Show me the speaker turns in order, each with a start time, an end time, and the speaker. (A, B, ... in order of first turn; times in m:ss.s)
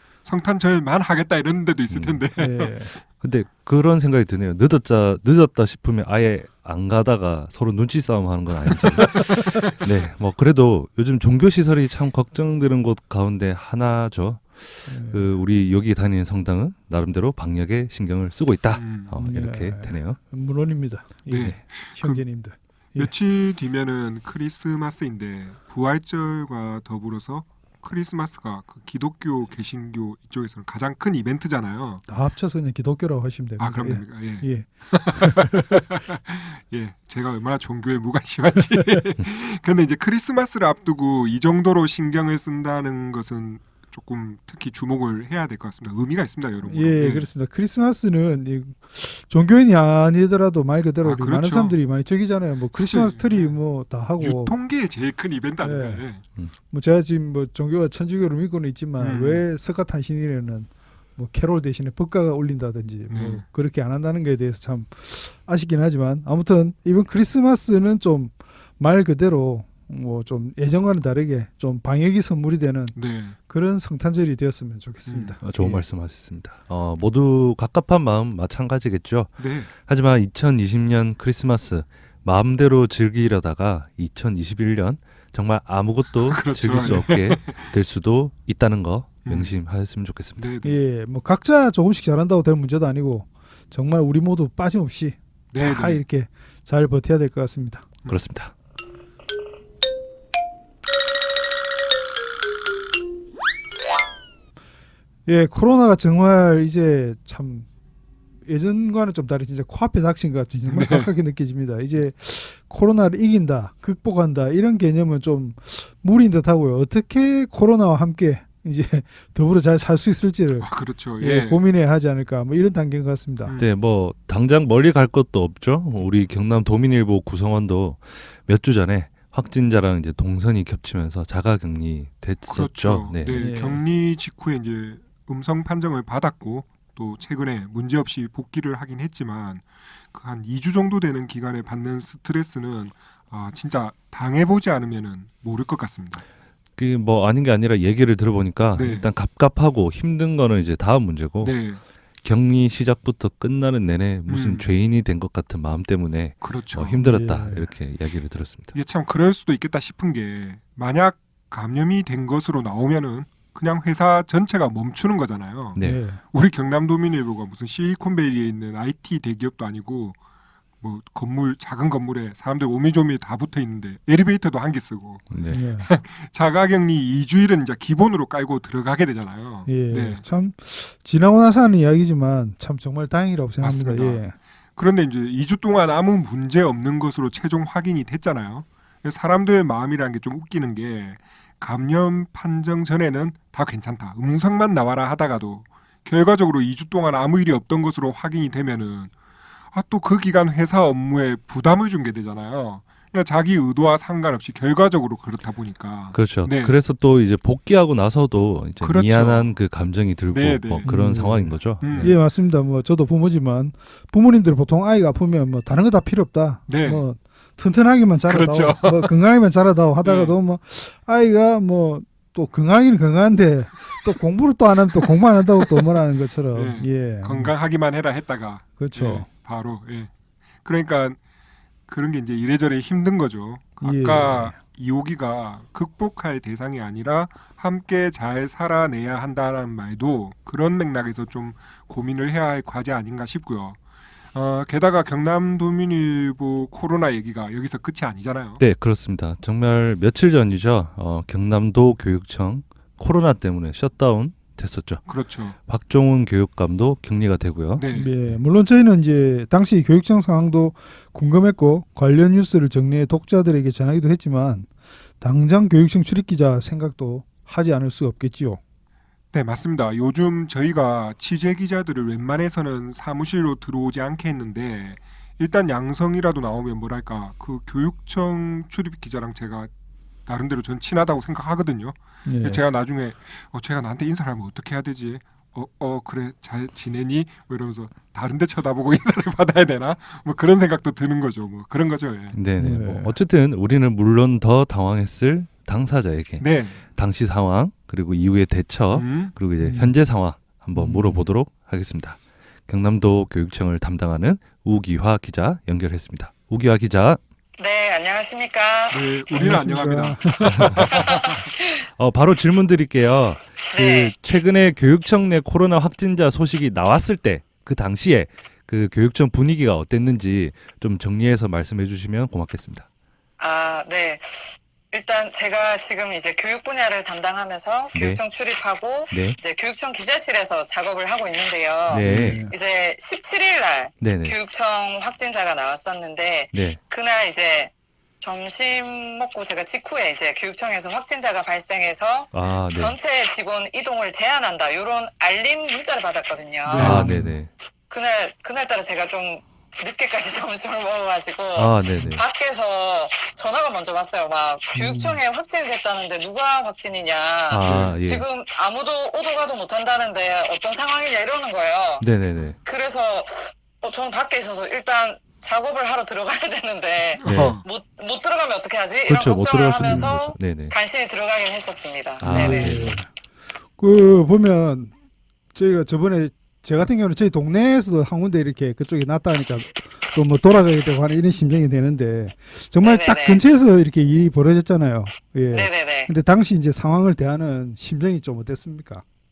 0:00.2-0:02.7 A
0:01.9-0:02.2 B
0:02.4-0:03.0 C
0:03.2-0:20.2 B
0:08.9-0:09.7 A
0:14.9-0:15.4 C
0:18.7-0:19.1 A
0:19.2-0:23.1 C
0:21.3-0:22.2 A
0:23.0-0:32.0 A
0:32.1-0:35.8 C
0:33.6-0:47.3 A
0:46.6-0:54.6 C
0:51.0-0:51.8 A
0:52.7-0:53.5 A
0:54.2-0:56.2 A
0:55.6-0:56.0 C
0:56.7-1:15.8 C
0:59.0-0:59.4 A
1:03.1-1:03.4 A
1:12.9-1:13.4 A
1:15.0-1:15.4 A
1:15.4-1:30.5 B
1:19.4-1:19.7 A
1:26.2-1:27.7 A
1:26.7-1:27.0 C
1:29.2-1:29.6 A
1:30.4-1:30.8 A
1:30.6-1:37.9 C
1:35.5-1:36.0 A
1:38.0-1:38.5 B
1:45.2-1:47.7 C
1:48.4-2:03.5 C
1:50.7-1:51.1 A
2:00.6-2:01.6 A
2:03.4-2:03.7 A
2:03.6-2:13.5 B
2:12.4-2:26.2 A
2:13.3-2:13.8 C
2:26.8-2:31.7 B
2:28.7-2:29.1 A
2:31.4-2:31.8 A
2:32.2-2:38.7 B
2:34.3-2:34.7 A
2:36.4-2:37.0 A
2:37.0-2:37.7 C
2:38.7-2:50.2 A
2:45.7-2:46.0 B
2:45.8-2:46.2 C
2:50.8-3:00.2 A
2:55.3-2:55.6 B
2:55.5-2:55.9 C
2:59.6-3:04.4 C
3:03.6-3:04.2 A
3:04.8-3:19.1 A
3:19.7-3:26.8 A
3:26.1-3:32.2 B
3:28.8-3:29.5 A
3:30.3-3:30.9 A
3:30.8-3:47.5 C
3:31.8-3:32.2 A
3:36.7-3:37.0 A
3:38.2-3:39.1 A
3:40.0-3:40.4 A
3:46.5-3:50.1 A
3:48.8-3:49.3 C
3:50.6-3:51.2 A
3:51.9-4:03.8 A
3:53.8-3:54.6 C
4:04.3-4:08.6 A
4:08.6-4:15.1 B
4:15.1-4:15.6 A
4:15.7-4:18.4 B
4:17.8-4:18.1 A
4:17.9-4:24.7 C
4:25.2-4:28.6 C
4:29.3-4:39.7 A
4:40.2-4:52.4 A
4:42.2-4:42.6 C
4:52.3-5:07.2 B
4:52.6-4:53.2 C
4:56.4-4:56.8 A
4:58.9-4:59.3 A
4:59.6-5:00.0 C
5:00.7-5:01.3 C
5:07.6-5:09.1 D
5:08.9-5:11.4 A
5:09.3-5:10.9 C
5:10.9-5:11.8 D
5:12.0-5:22.8 B
5:13.7-5:14.1 D
5:23.4-5:47.0 D
5:27.9-5:28.2 B
5:29.1-5:29.4 B
5:31.9-5:32.4 B
5:32.0-5:32.5 C
5:34.0-5:34.4 B
5:36.5-5:36.8 B
5:42.3-5:43.0 B
5:46.7-5:47.1 A
5:46.7-5:47.4 C
5:46.8-5:47.5 B
5:47.9-6:02.1 D
5:51.5-5:52.2 B
5:54.7-5:55.2 C
5:57.5-5:58.2 B
5:57.6-5:58.0 A
6:02.0-6:02.6 B
6:02.6-6:12.9 D
6:07.2-6:07.6 A
6:07.2-6:07.6 B
6:09.1-6:10.7 B
6:12.2-6:13.0 B
6:12.2-6:13.1 C
6:13.7-6:14.9 C
6:15.5-6:29.0 C
6:22.8-6:23.4 D
6:25.5-6:26.1 D